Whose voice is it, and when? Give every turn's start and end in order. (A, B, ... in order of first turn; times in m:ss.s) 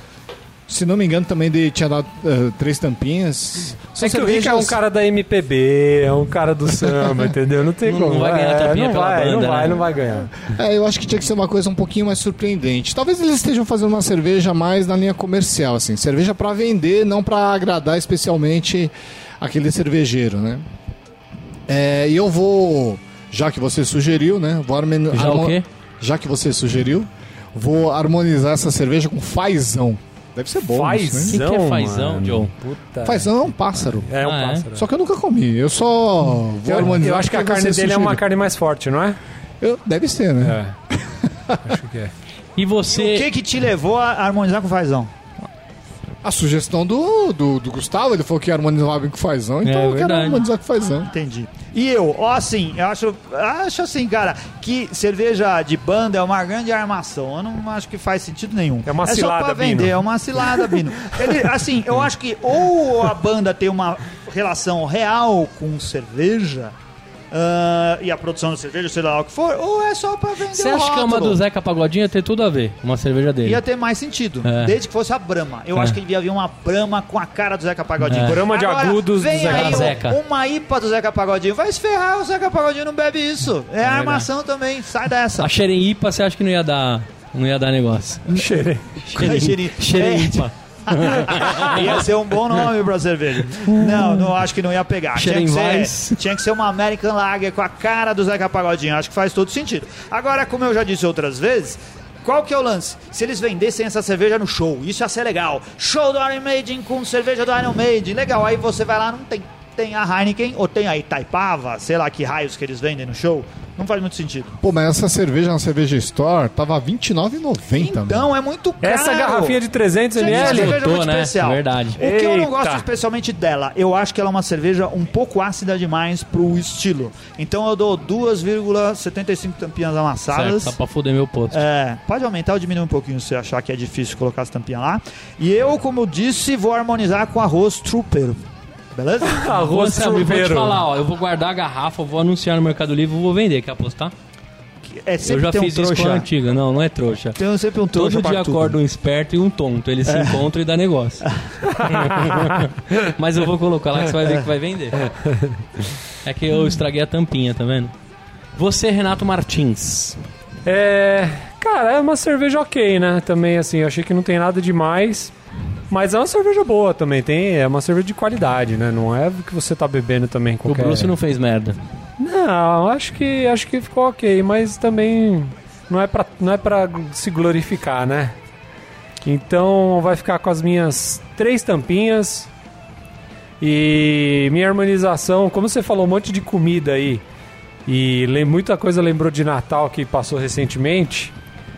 0:00.7-0:04.8 A
0:04.0-0:10.4 B
0:06.8-0:07.3 A
0:07.8-0:09.8 C
0:10.4-0:20.6 A
0:21.7-0:31.4 A
0:25.1-0:25.6 C
0:30.8-0:34.9 B
0:31.3-0:32.5 C
0:33.0-0:34.1 A
0:34.2-0:34.7 C
0:34.7-0:38.2 A
0:36.7-0:39.2 B
0:39.6-0:41.8 A
0:40.4-0:40.7 B
0:41.6-0:42.1 B
0:42.6-0:43.3 C
0:43.0-0:45.1 D
0:46.2-0:51.1 A
0:49.6-0:50.4 C
0:51.1-1:06.7 D
0:58.9-1:01.4 B
1:07.3-1:11.4 D
1:10.5-1:13.6 C
1:13.4-1:25.5 D
1:14.4-1:14.8 C
1:18.1-1:18.4 C
1:18.2-1:20.0 B
1:19.4-1:20.2 C
1:23.8-1:24.3 C
1:25.4-1:28.3 C
1:28.3-1:54.6 D
1:28.3-1:29.0 B
1:29.1-1:32.0 C
1:33.7-1:34.1 C
1:35.2-1:36.2 C
1:54.6-1:58.3 A
1:57.8-1:59.6 D
1:58.8-2:00.8 B
2:00.2-2:10.8 D
2:00.2-2:02.0 C
2:02.0-2:02.9 B
2:10.3-2:11.6 C
2:11.5-2:18.4 D
2:18.9-2:19.6 D
2:19.2-2:20.8 B
2:19.5-2:24.1 C
2:24.9-2:26.3 D
2:25.2-2:27.4 C
2:27.4-2:28.8 D
2:27.9-2:31.3 C
2:30.1-2:30.4 D
2:31.8-2:35.0 C
2:31.9-2:32.4 B
2:35.0-2:35.6 B
2:36.2-2:37.9 C
2:38.6-2:40.2 C
2:40.6-2:45.3 B
2:45.9-2:51.2 B
2:50.6-2:51.8 C
2:52.2-2:58.4 B
2:59.2-3:02.5 B
3:03.6-3:07.2 B
3:07.9-3:11.3 B